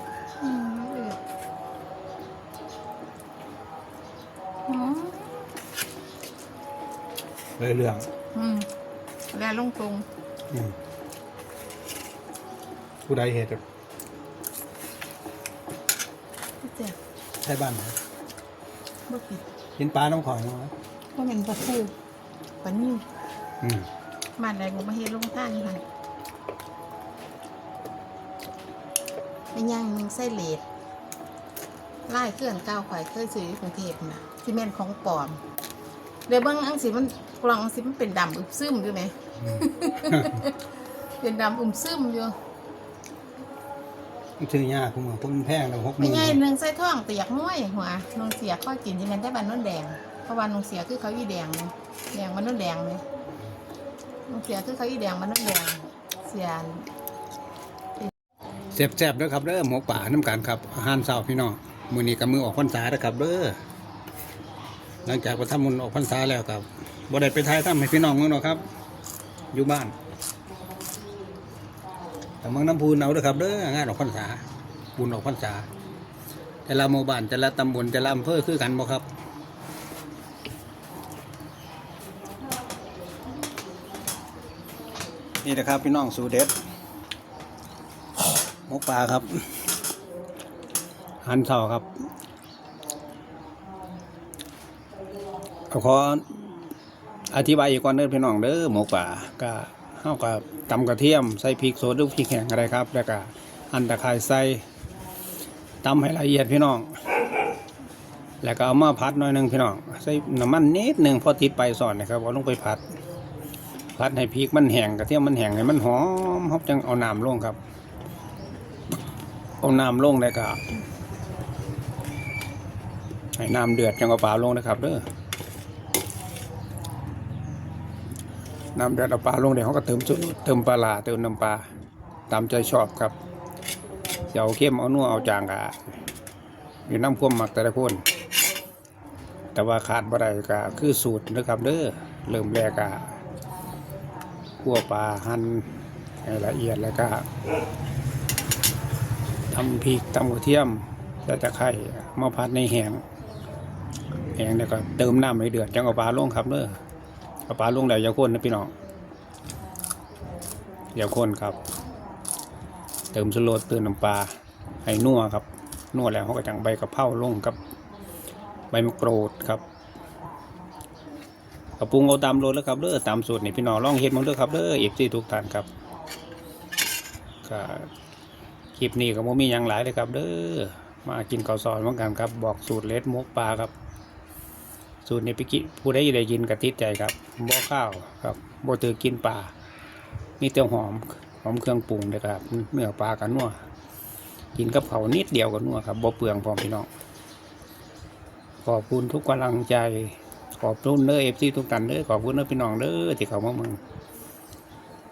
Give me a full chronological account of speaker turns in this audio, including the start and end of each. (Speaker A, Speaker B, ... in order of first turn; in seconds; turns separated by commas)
Speaker A: 0.4-1.2, Speaker A: 4.7-5.3, Speaker B: 7.6-8.1, Speaker A: 8.3-8.7, Speaker A: 9.3-10.1, Speaker B: 10.5-10.8, Speaker B: 13.1-13.6, Speaker A: 16.6-17.0, Speaker B: 17.4-18.0, Speaker A: 19.1-19.4, Speaker B: 19.8-20.7, Speaker A: 21.1-21.9, Speaker A: 22.6-23.1, Speaker B: 23.6-23.9, Speaker A: 24.4-25.8, Speaker A: 29.5-30.6, Speaker A: 32.1-35.4, Speaker A: 36.3-42.4, Speaker B: 39.4-40.4, Speaker B: 44.4-46.4, Speaker A: 46.0-53.0, Speaker A: 54.3-56.9, Speaker B: 58.7-63.6, Speaker B: 65.0-68.6, Speaker B: 69.5-70.0, Speaker B: 72.4-74.4, Speaker B: 75.0-75.7, Speaker B: 76.7-79.1, Speaker B: 85.4-86.5, Speaker B: 88.7-89.6, Speaker B: 91.2-91.9, Speaker B: 95.7-96.5, Speaker B: 97.3-104.7, Speaker B: 105.8-106.9, Speaker B: 108.4-112.8, Speaker B: 114.0-117.6, Speaker B: 119.6-120.6, Speaker B: 123.4-125.0, Speaker B: 128.8-131.7, Speaker B: 132.3-133.2, Speaker B: 134.3-135.8, Speaker B: 136.9-138.0, Speaker B: 139.6-143.1, Speaker B: 144.6-145.7, Speaker B: 146.2-147.3, Speaker B: 149.5-153.0, Speaker B: 154.4-156.8, Speaker B: 157.5-158.7, Speaker B: 160.9-161.6, Speaker B: 163.1-167.6, Speaker B: 168.7-169.6, Speaker B: 171.8-175.7, Speaker B: 177.4-177.9, Speaker B: 178.7-183.7, Speaker B: 185.1-189.5, Speaker B: 190.4-193.6, Speaker B: 194.6-196.9, Speaker B: 198.7-203.8